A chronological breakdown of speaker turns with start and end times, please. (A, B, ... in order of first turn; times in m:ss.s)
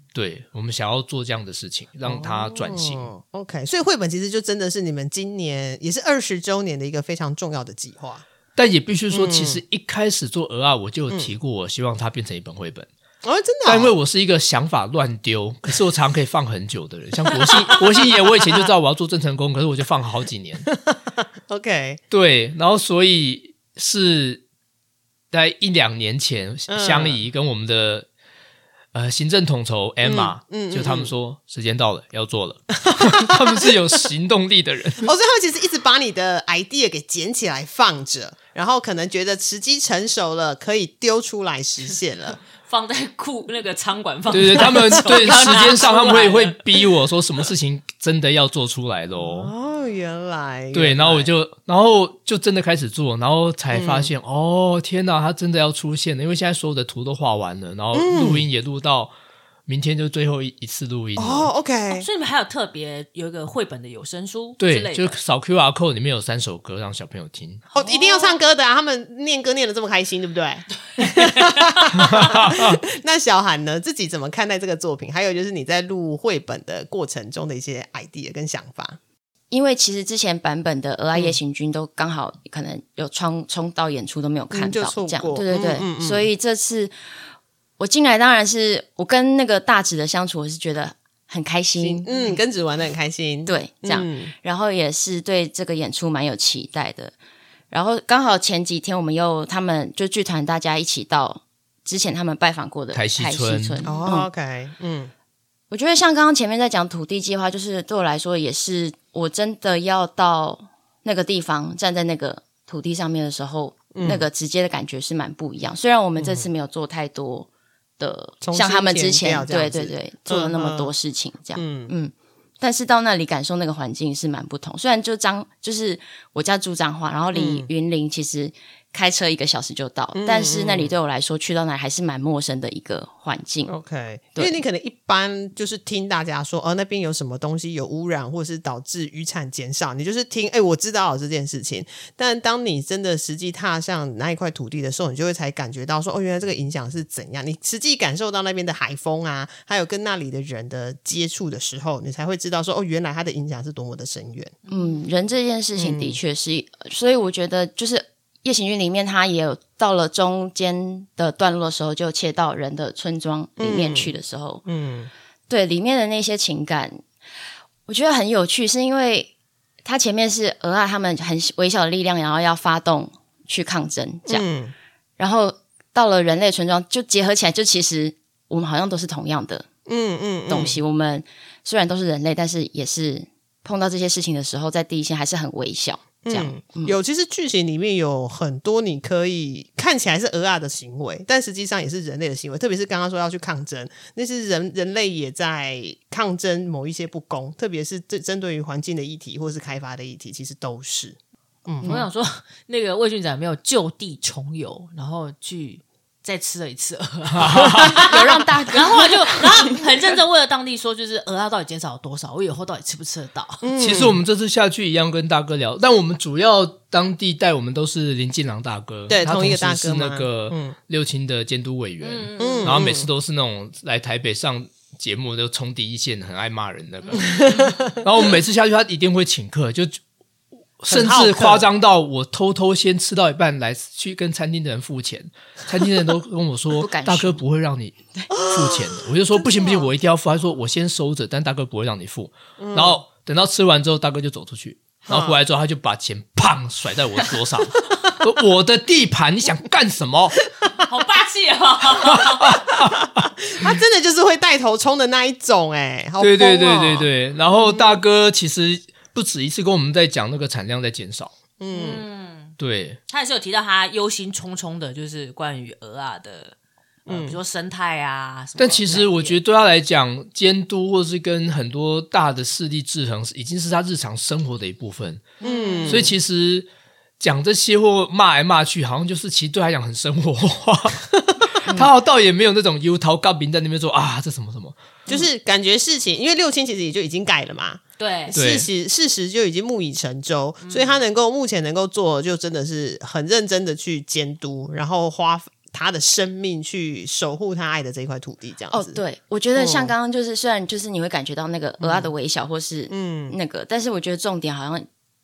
0:00.1-0:03.1 A
0:02.0-0:08.2 B
0:08.6-0:12.9 A
0:09.1-0:09.6 B
0:13.2-0:13.9 B
0:13.6-0:20.7 A
0:17.3-0:18.6 B
0:20.7-0:22.0 B
0:22.1-0:24.4 A
0:25.3-0:28.1 A
0:26.7-0:27.2 B
0:28.9-0:35.1 A
0:30.0-0:31.1 B
0:32.9-0:33.7 B
0:35.0-0:42.4 B
0:42.6-0:46.6 C
0:44.3-0:49.5 A
0:45.1-0:45.6 B
0:49.2-0:51.3 B
0:50.7-0:59.1 A
0:53.7-0:54.1 B
0:57.9-0:58.4 B
0:59.7-1:01.5 A
1:01.2-1:02.1 B
1:01.9-1:05.2 C
1:04.6-1:07.6 A
1:07.7-1:08.4 C
1:07.7-1:19.0 B
1:11.0-1:11.8 C
1:12.0-1:12.8 A
1:19.5-1:26.9 D
1:24.5-1:26.3 B
1:27.8-1:32.1 D
1:31.8-1:34.3 B
1:33.4-1:37.1 D
1:37.7-1:44.3 D
1:42.9-1:43.8 A
1:43.8-1:45.1 B
1:45.7-1:57.5 D
1:53.9-1:54.2 B
1:56.2-1:56.5 B
1:58.0-2:13.7 D
1:58.4-2:00.9 B
2:01.5-2:01.9 B
2:07.3-2:07.7 B
2:10.1-2:11.0 B
2:13.7-2:34.6 B
2:34.6-2:35.0 C
2:34.7-2:44.6 D
2:35.8-2:36.2 B
2:43.6-2:44.1 B
2:44.6-2:45.1 B
2:45.5-2:47.0 D
2:47.9-2:49.3 D
2:49.8-2:54.4 D
2:54.3-2:54.7 B
2:55.2-2:59.7 D
2:59.9-3:00.8 B
3:00.5-3:07.0 D
3:06.2-3:22.0 B
3:21.8-3:33.7 C
3:27.3-3:28.1 A
3:27.8-3:29.8 D
3:33.6-3:34.2 B
3:33.8-3:50.0 A
3:39.1-3:40.7 B
3:42.0-3:42.8 C
3:42.4-3:43.1 B
3:47.2-3:47.7 B
3:50.8-4:10.4 A
3:50.9-3:51.6 B
3:56.7-3:57.4 D
3:58.3-3:59.9 B
4:02.6-4:03.0 B
4:05.0-4:05.4 B
4:10.8-4:12.6 C
4:12.1-4:13.7 A
4:12.7-4:18.0 B
4:16.2-4:21.3 A
4:21.6-4:22.0 B
4:21.7-4:22.5 C
4:22.6-4:23.0 A
4:23.1-4:26.5 C
4:27.0-4:29.4 C
4:27.1-4:27.4 B
4:28.6-4:35.3 A
4:35.4-4:36.1 C
4:35.4-4:36.1 B
4:35.9-4:36.7 A
4:37.2-4:44.8 A
4:41.6-4:41.9 D
4:45.1-4:59.0 B
4:48.0-4:48.4 C
4:48.3-4:48.7 A
4:50.6-4:51.0 C
4:58.7-5:04.9 D
4:59.6-4:59.9 B
5:01.8-5:02.1 B
5:02.9-5:03.4 B